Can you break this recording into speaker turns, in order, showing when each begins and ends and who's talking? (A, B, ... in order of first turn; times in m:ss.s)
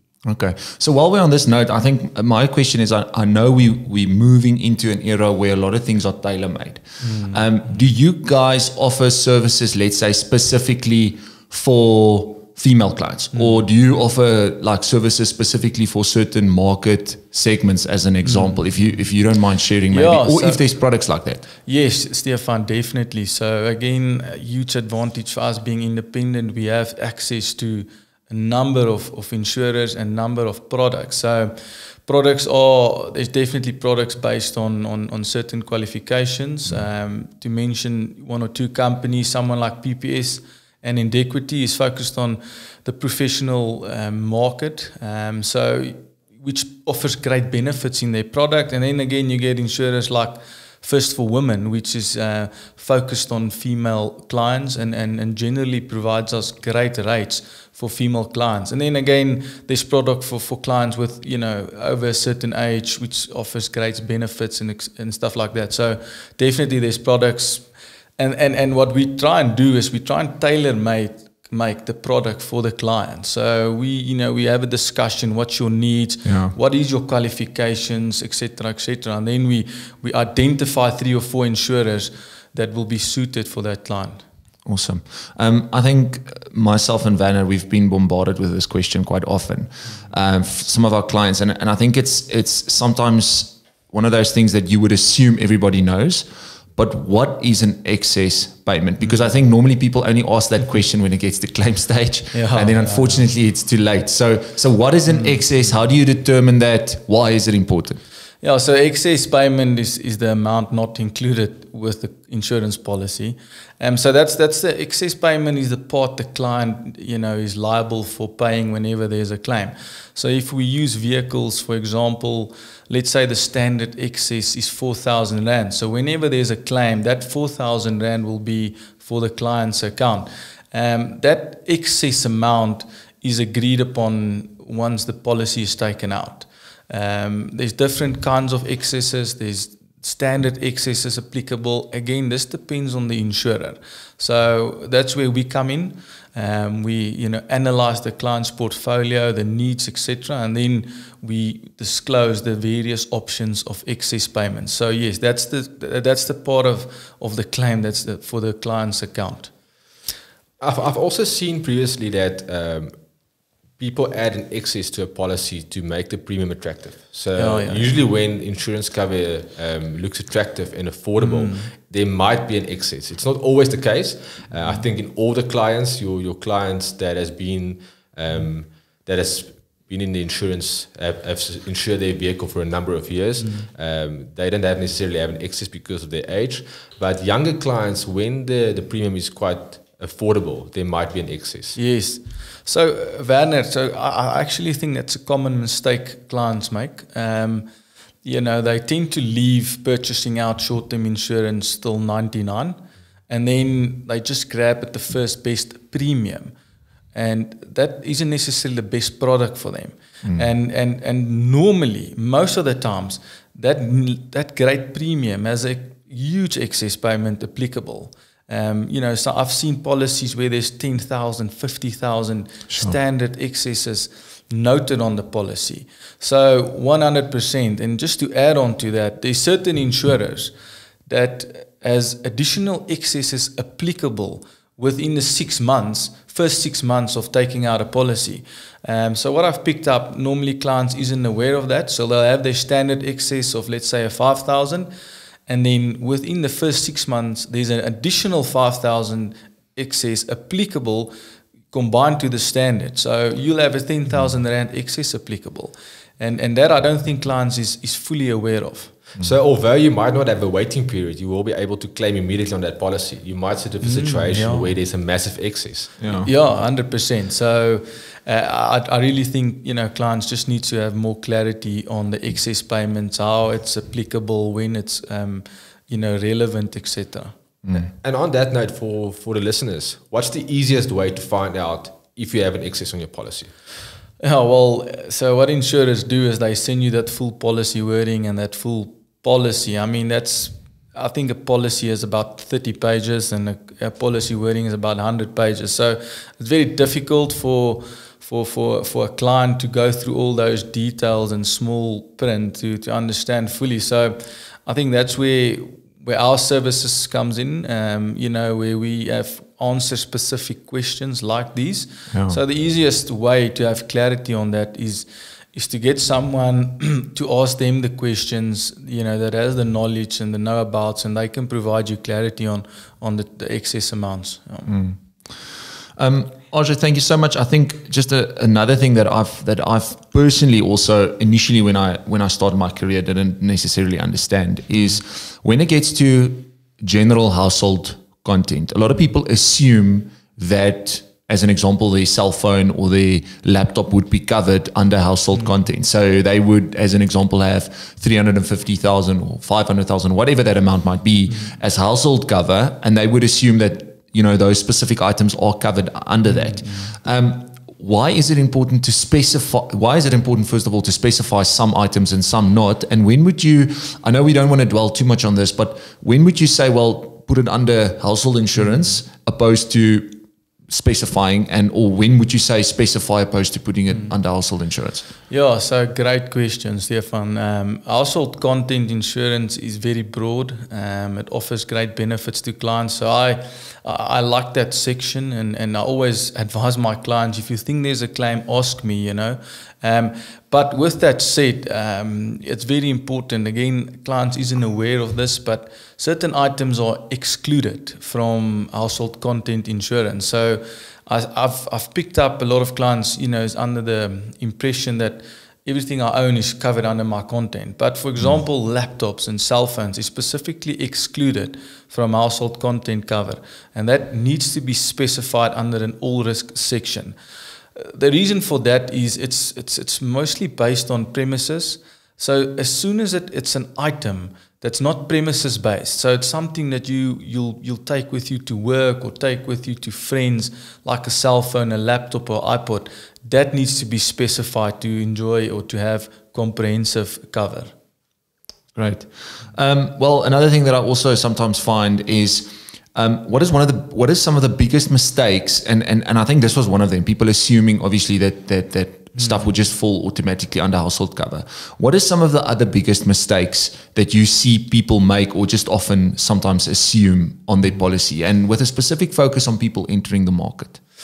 0:00.2-0:21.4 A
0:07.0-0:07.4 B
0:13.3-0:13.6 B
0:18.2-0:18.6 B
0:19.9-0:20.7 B
0:21.6-1:24.2 B
1:16.2-1:16.6 A
1:24.6-1:48.0 A
1:42.3-1:43.2 B
1:45.1-1:45.4 B
1:48.4-2:39.5 B
2:40.6-2:43.0 C
2:43.8-3:11.8 C
2:47.4-2:47.9 B
2:51.2-2:51.7 B
3:03.4-3:03.7 B
3:11.8-3:17.7 B
3:18.2-3:26.5 B
3:27.1-3:50.5 B
3:42.7-3:43.0 A
3:51.1-4:04.9 B
4:05.5-4:11.1 B
4:11.7-4:19.0 B
4:19.2-4:26.0 C
4:23.8-4:24.7 B
4:26.0-4:26.3 A
4:26.2-4:37.3 B
4:37.6-4:37.9 A
4:37.7-4:43.5 C
4:44.2-5:24.8 B
5:12.1-5:12.4 A
5:24.7-6:15.1 A
5:51.3-5:51.6 B
5:56.3-5:56.6 B
6:13.9-6:14.2 B
6:15.3-6:57.2 B
6:57.8-7:17.7 B
7:18.8-7:40.8 A